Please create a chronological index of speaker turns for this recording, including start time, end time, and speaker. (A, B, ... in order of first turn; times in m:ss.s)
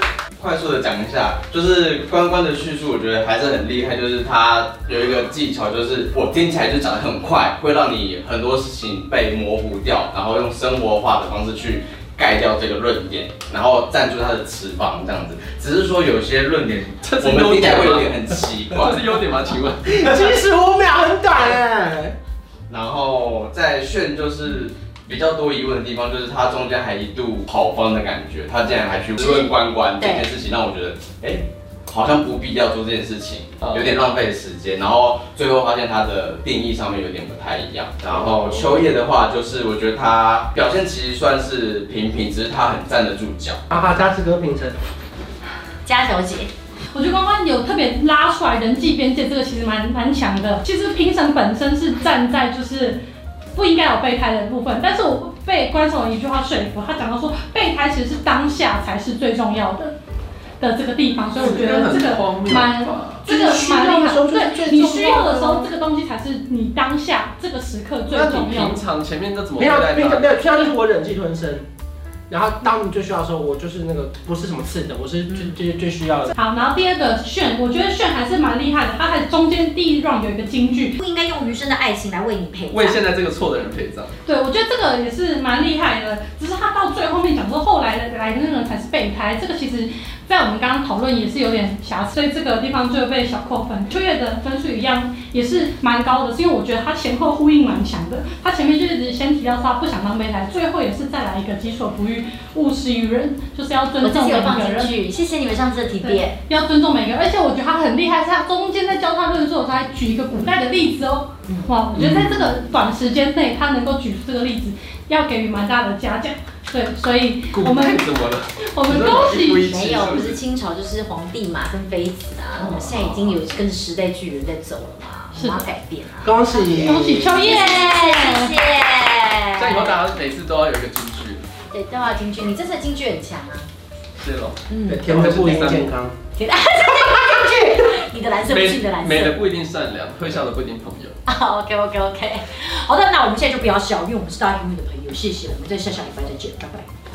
0:00.4-0:19.1 A
0:17.0-0:18.1 B
0:18.7-0:20.3 B
0:19.9-0:22.1 C
0:22.7-0:43.6 A
0:29.2-0:30.3 D
0:33.6-0:33.9 B
0:43.7-0:44.8 C
0:45.8-0:46.5 D
0:46.9-0:53.0 E
0:53.5-0:59.9 E
1:00.6-1:08.8 E
1:01.4-1:03.3 B
1:03.2-1:05.7 C
1:08.1-1:10.3 B
1:09.6-1:11.7 C
1:12.3-1:16.3 C
1:16.3-1:20.9 E
1:21.0-1:23.0 D
1:22.7-1:24.1 B
1:24.2-1:44.9 E
1:44.0-1:46.4 D
1:46.0-1:58.0 E
1:51.5-1:51.7 D
1:51.9-1:52.4 B
1:57.5-2:00.4 B
1:58.6-1:59.7 E
1:59.6-2:10.0 D
2:02.6-2:03.4 B
2:05.3-2:05.6 E
2:06.2-2:07.3 C
2:06.8-2:08.6 E
2:09.6-2:11.4 B
2:11.7-2:13.7 D
2:14.2-2:15.9 B
2:14.7-2:15.1 D
2:14.9-2:16.1 C
2:16.3-2:19.4 D
2:18.5-2:21.1 B
2:21.3-2:26.9 D